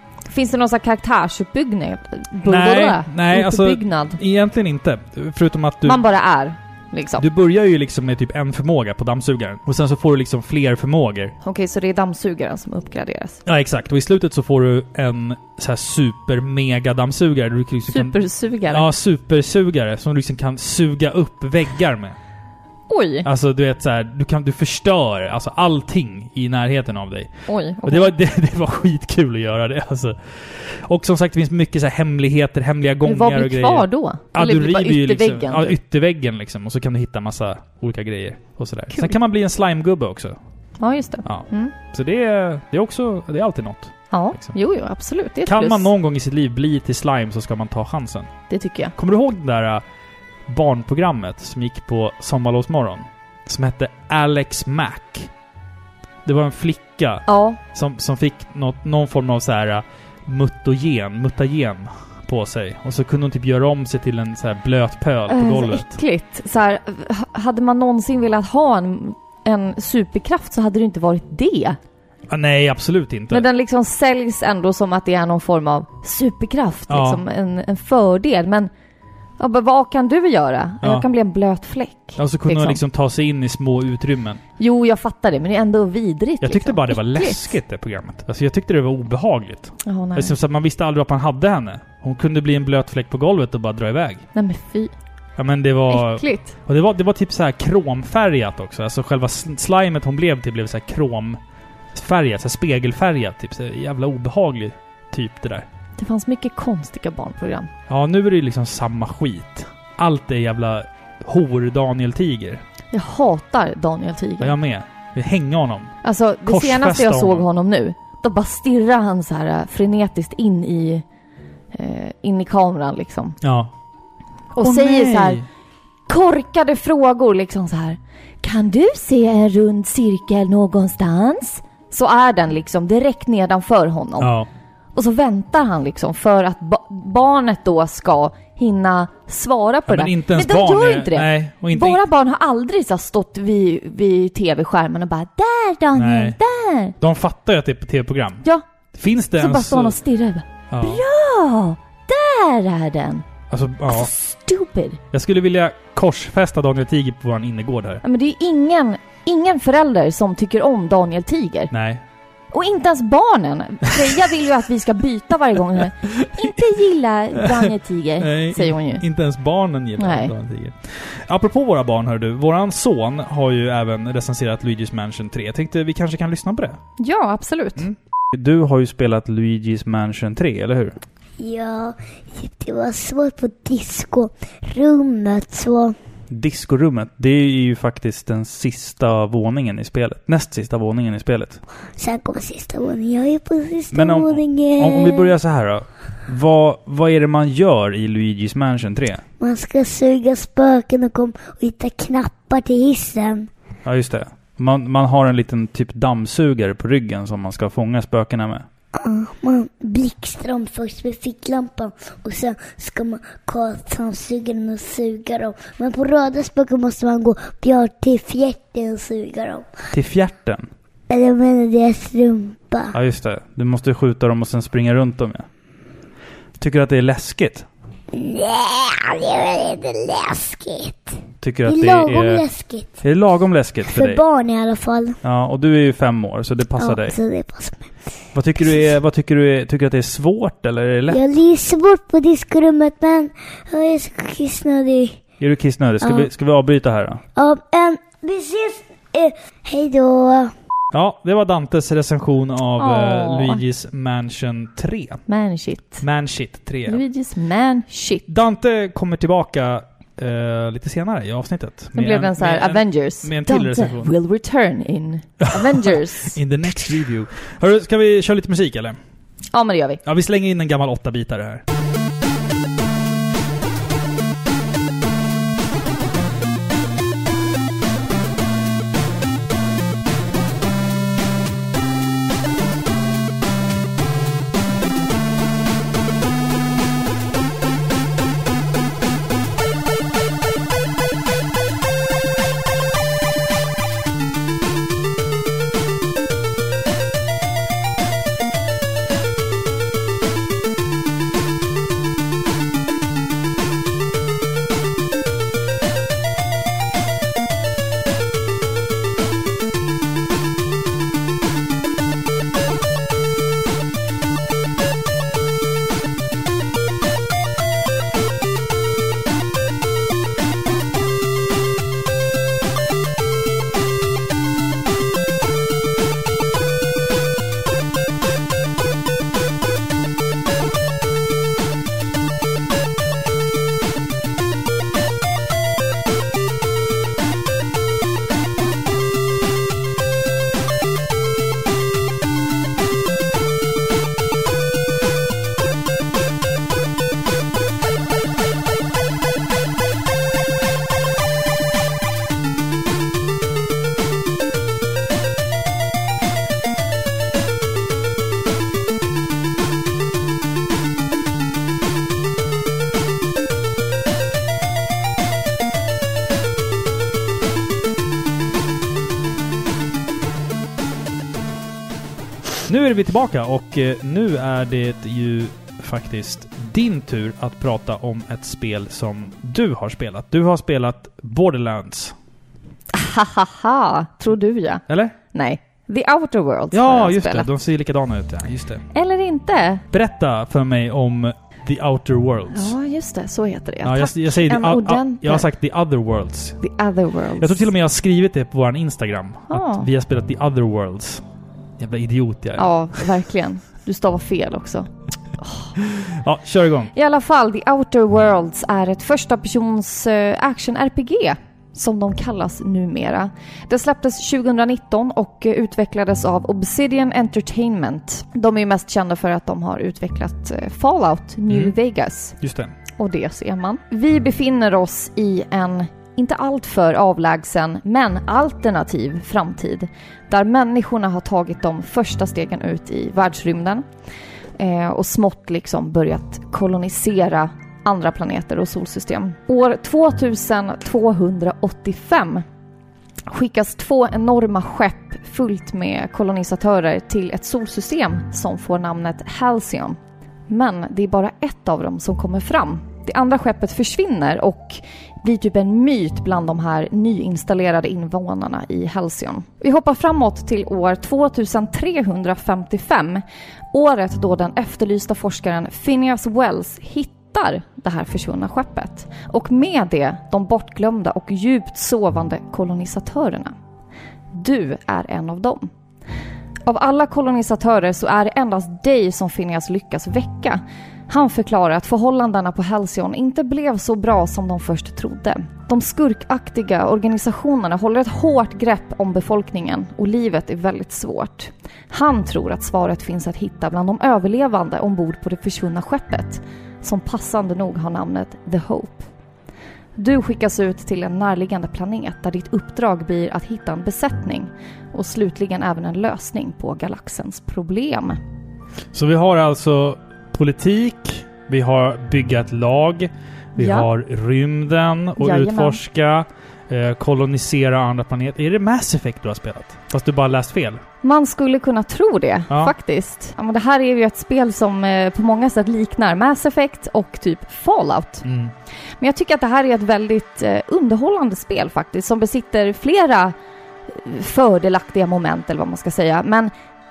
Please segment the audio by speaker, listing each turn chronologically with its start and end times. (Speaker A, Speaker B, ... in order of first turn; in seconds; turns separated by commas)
Speaker A: 0.3-4.2, Speaker B: 2.4-6.0, Speaker A: 5.8-7.2, Speaker B: 7.2-11.3, Speaker A: 11.4-13.4, Speaker B: 13.5-22.2, Speaker A: 17.9-18.9, Speaker A: 22.9-23.3, Speaker B: 23.2-40.4, Speaker A: 27.5-28.1, Speaker A: 33.0-35.8, Speaker A: 38.9-39.2, Speaker A: 40.8-41.7, Speaker B: 41.2-44.5, Speaker A: 44.1-45.9, Speaker B: 45.5-48.3, Speaker A: 48.5-48.9, Speaker B: 49.0-49.8, Speaker B: 50.5-55.3, Speaker B: 56.2-65.9, Speaker A: 57.3-57.6, Speaker A: 65.3-71.8, Speaker B: 72.3-73.5, Speaker A: 73.3-78.7, Speaker B: 76.9-77.2, Speaker A: 79.4-82.8, Speaker B: 82.2-84.4, Speaker A: 84.6-87.5, Speaker B: 86.4-94.2, Speaker A: 89.9-90.3, Speaker A: 94.3-94.9, Speaker B: 95.4-101.4, Speaker A: 95.9-96.5, Speaker B: 101.9-105.7, Speaker A: 106.0-107.7, Speaker B: 107.9-112.6, Speaker A: 112.9-114.5, Speaker B: 114.4-117.5, Speaker A: 116.0-121.0, Speaker A: 121.7-123.4, Speaker B: 123.4-123.7, Speaker A: 124.5-125.4, Speaker B: 124.5-125.5, Speaker A: 126.1-134.3, Speaker B: 134.2-134.5, Speaker A: 134.9-146.9, Speaker B: 139.9-142.0, Speaker B: 145.9-146.4, Speaker B: 147.0-148.4, Speaker B: 148.9-150.0, Speaker A: 149.4-153.3, Speaker B: 150.7-151.0, Speaker B: 153.5-154.1, Speaker A: 153.9-155.0, Speaker B: 155.1-158.0, Speaker A: 158.0-161.7, Speaker B: 161.7-162.0, Speaker A: 162.5-169.0, Speaker B: 166.0-166.6, Speaker B: 167.4-176.8, Speaker A: 170.0-170.3, Speaker A: 177.0-177.9, Speaker B: 177.8-181.0, Speaker C: 181.4-186.0, Speaker B: 186.3-191.6, Speaker C: 192.0-195.3, Speaker B: 193.9-199.2, Speaker C: 199.4-203.5, Speaker B: 203.8-208.7, Speaker C: 209.0-219.7, Speaker B: 219.9-220.7, Speaker C: 221.1-222.9, Speaker B: 222.9-225.5, Speaker B: 226.6-227.7, Speaker C: 228.1-233.0, Speaker B: 231.4-232.4, Speaker B: 233.0-234.2, Speaker C: 233.9-235.2, Speaker B: 235.2-237.2, Speaker C: 236.8-237.9, Speaker B: 238.3-241.2, Speaker C: 241.1-245.2, Speaker B: 245.4-247.2, Speaker C: 246.0-246.3, Speaker C: 247.4-250.5, Speaker B: 250.9-255.2, Speaker A: 252.8-253.6, Speaker A: 255.3-256.0, Speaker B: 256.0-257.0, Speaker A: 256.9-258.2, Speaker B: 258.3-264.1, Speaker A: 261.9-266.4, Speaker B: 265.4-269.0, Speaker A: 269.5-270.0, Speaker B: 270.1-271.6, Speaker B: 372.7-382.2, Speaker A: 382.9-387.5, Speaker B: 384.9-385.2, Speaker B: 386.7-388.9, Speaker A: 388.9-389.8, Speaker B: 389.9-392.7, Speaker A: 392.5-395.5, Speaker B: 393.8-396.6, Speaker A: 396.6-397.7, Speaker B: 397.4-401.2, Speaker A: 399.5-399.9, Speaker B: 401.8-403.1, Speaker A: 402.6-405.7, Speaker B: 405.8-406.9, Speaker A: 406.9-422.4, Speaker B: 421.5-421.8, Speaker B: 422.4-422.8, Speaker A: 423.0-433.9, Speaker A: 434.6-442.4, Speaker A: 443.3-450.0, Speaker A: 450.5-473.5, Speaker A: 474.3-475.7, Speaker A: 476.7-499.1, Speaker A: 500.0-508.2, Speaker B: 508.9-520.8, Speaker A: 513.6-513.9, Speaker A: 515.2-515.8, Speaker A: 521.0-528.2, Speaker B: 528.2-528.5, Speaker A: 529.0-533.4, Speaker A: 533.9-536.5